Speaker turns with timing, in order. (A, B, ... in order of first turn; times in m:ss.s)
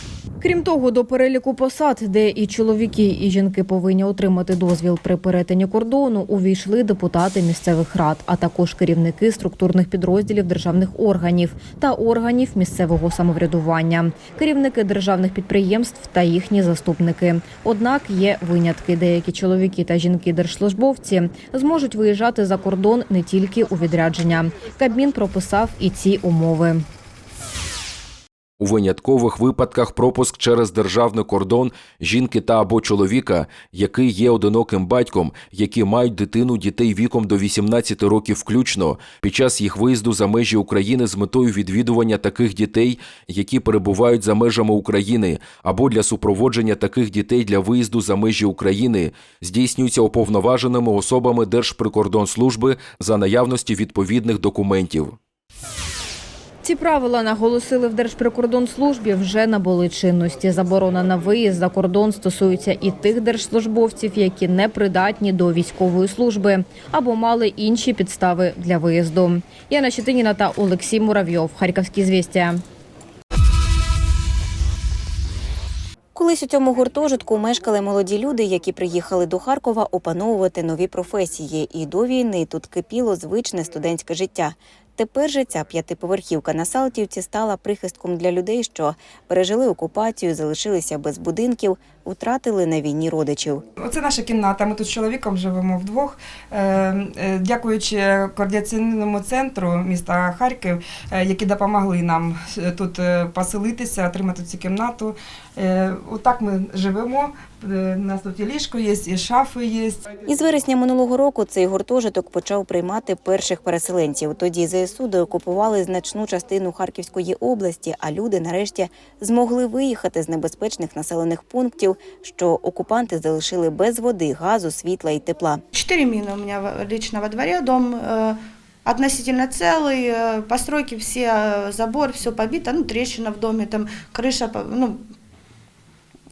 0:00.4-0:26.8 A
0:28.6-0:55.2 B
0:56.6-1:12.6 A
1:16.1-1:33.6 C
1:33.8-1:50.0 D
1:50.2-2:05.6 C
2:05.7-2:15.1 E